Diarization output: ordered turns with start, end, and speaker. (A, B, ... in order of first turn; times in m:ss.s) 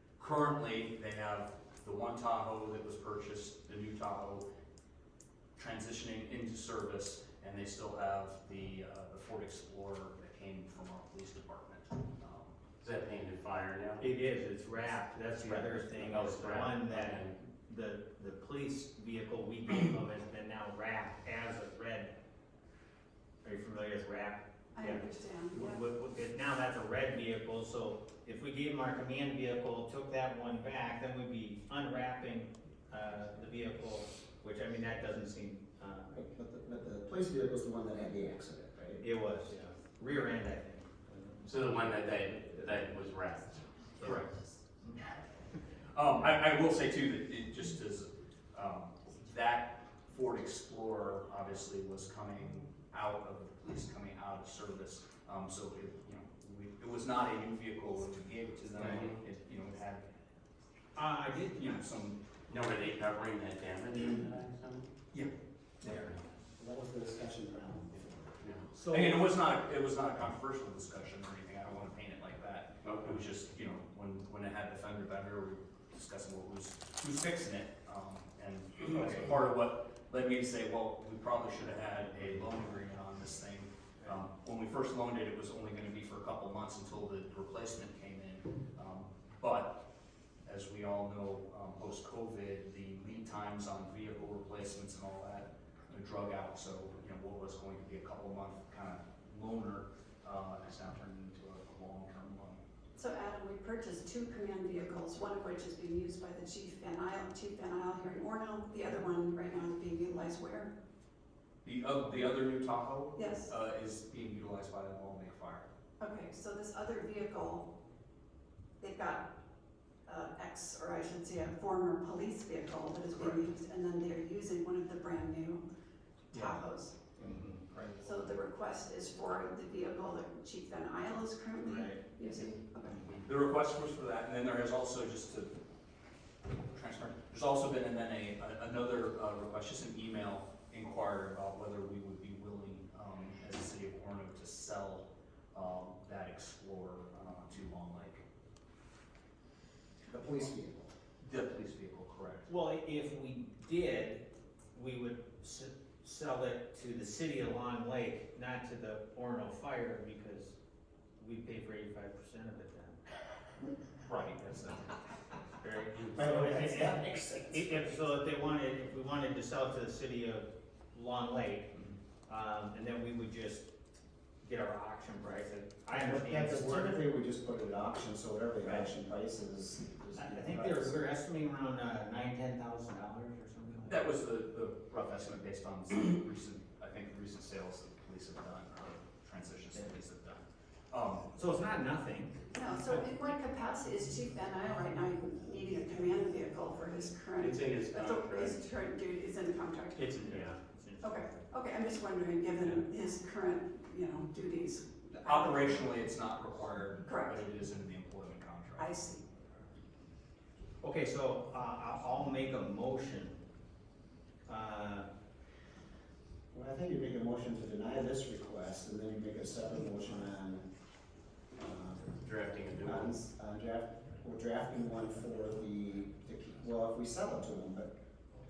0:00.2-0:04.4 A
0:05.6-0:12.6 A
0:12.8-0:14.1 B
0:14.0-0:22.1 C
0:15.4-0:17.3 B
0:23.4-0:36.2 C
0:24.7-0:25.8 D
0:36.1-0:39.0 E
0:39.0-0:41.5 C
0:41.4-0:44.2 B
0:44.0-0:44.3 C
0:45.9-1:00.0 A
0:58.8-0:59.2 B
1:00.9-1:01.8 C
1:01.5-1:02.2 A
1:02.5-1:04.9 B
1:05.8-1:08.4 E
1:05.8-1:06.2 B
1:08.4-1:08.7 B
1:08.7-1:09.3 C
1:08.9-1:29.8 A
1:12.8-1:13.2 B
1:30.4-1:42.6 A
1:43.0-1:50.7 D
1:51.6-1:55.7 A
1:53.1-1:53.5 D
1:56.0-1:57.7 D
1:58.8-1:59.3 D
2:00.0-2:05.6 D
2:03.1-2:03.4 A
2:06.3-2:07.1 D
2:06.3-2:06.6 C
2:07.1-2:08.1 C
2:08.0-2:13.0 D
2:11.6-2:13.2 C
2:13.2-2:15.5 A
2:16.7-2:28.2 A
2:30.1-2:30.9 E
2:31.2-2:32.5 A
2:32.5-2:40.6 C
2:41.2-2:43.0 C
2:44.0-2:44.8 A
2:45.6-2:53.7 C
2:46.2-2:47.8 E
2:54.4-2:57.1 C
2:55.9-3:01.1 E
2:58.6-2:58.9 C
3:00.1-3:04.1 C
3:03.8-3:11.3 A
3:09.7-3:10.0 C
3:11.3-3:13.0 C
3:12.5-3:20.2 D
3:17.4-3:18.6 B
3:20.0-3:21.5 C
3:20.2-3:20.5 B
3:21.0-3:25.8 D
3:25.2-3:29.0 A
3:27.0-3:27.4 D
3:28.8-3:29.2 D
3:30.8-3:33.4 C
3:34.5-3:35.1 C
3:36.5-3:40.7 E
3:41.6-3:42.1 E
3:42.2-3:43.1 B
3:42.8-3:47.9 E